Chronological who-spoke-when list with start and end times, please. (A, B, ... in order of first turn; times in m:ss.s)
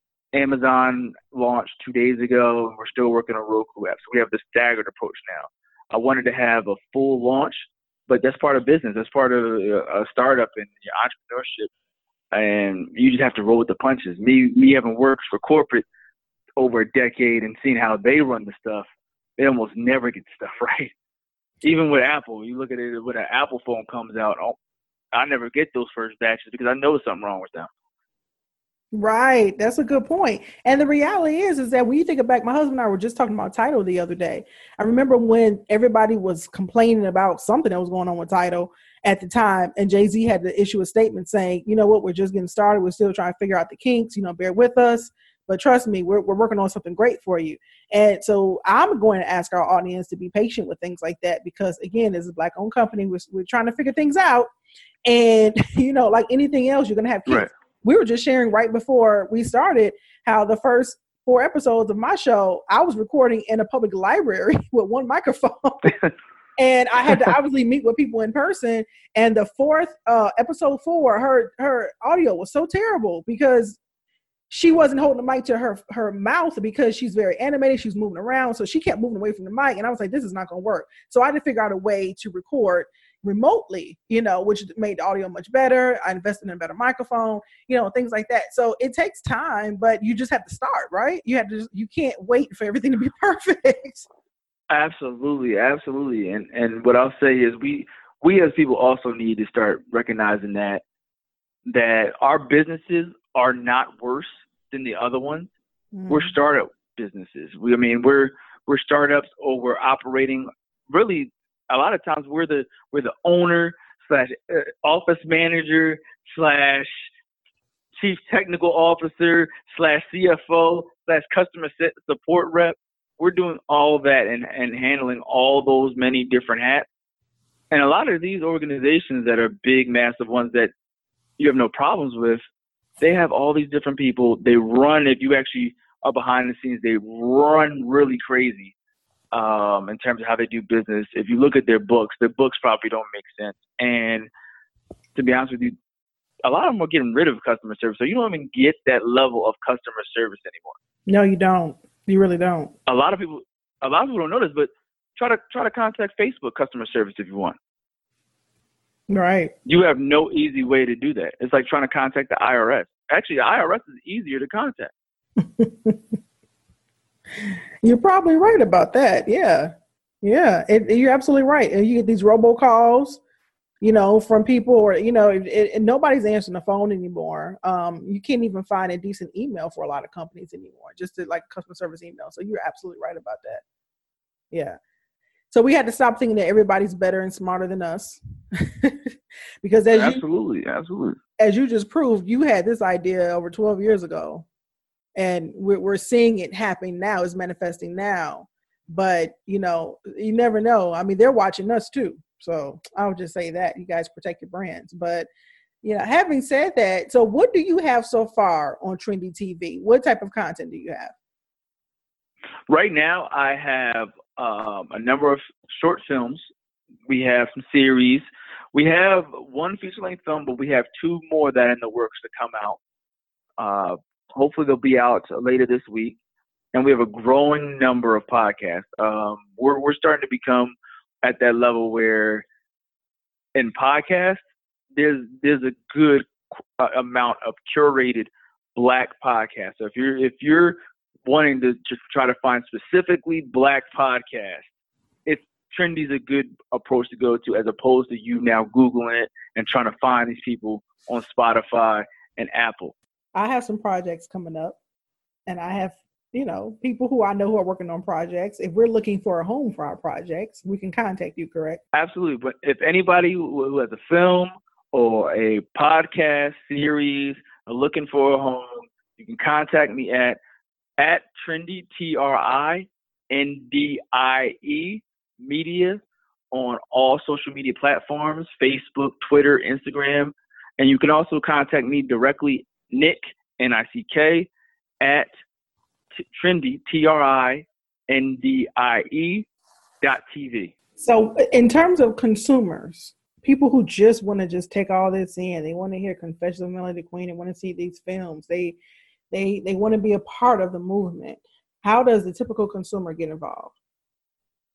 0:00.3-0:11.7 A
0:12.3-0:15.8 A
0:16.6-0:18.9 A
0:19.4-0:20.9 A
0:21.6-0:24.6 A
0:25.1-0:27.7 A
0:28.9-0:54.5 B
0:55.0-1:06.0 B
1:06.6-1:13.8 B
1:14.5-1:34.1 B
1:34.7-1:40.8 A
1:41.7-1:45.5 A
1:45.9-1:46.3 B
1:46.1-1:57.1 A
1:58.0-2:06.9 A
2:07.7-2:10.7 A
2:11.4-2:12.4 A
2:13.0-2:18.7 A
2:19.3-2:24.3 A
2:25.1-2:25.7 A
2:26.4-2:30.8 A
2:31.1-2:32.7 B
2:32.9-2:37.6 A
2:39.1-2:39.5 B
2:39.6-2:44.9 A
2:45.4-2:46.0 B
2:47.8-2:53.2 B
2:53.8-3:03.6 B
3:04.5-3:04.8 B
3:05.5-3:10.2 B
3:09.9-3:11.2 A
3:11.4-3:14.4 B
3:15.2-3:25.3 B
3:25.8-3:31.1 B
3:32.7-3:36.4 A
3:37.1-3:42.8 A
3:43.6-3:46.2 A
3:46.7-3:52.4 A
3:53.5-3:54.4 A
3:54.9-4:04.6 A
4:05.2-4:12.9 A
4:13.3-4:14.8 B
4:15.5-4:21.8 B
4:21.9-4:30.4 A
4:31.0-4:44.5 A
4:45.0-4:45.3 A
4:46.3-4:49.4 A
4:50.0-4:50.7 A
4:51.0-4:58.8 B
4:59.3-5:03.7 B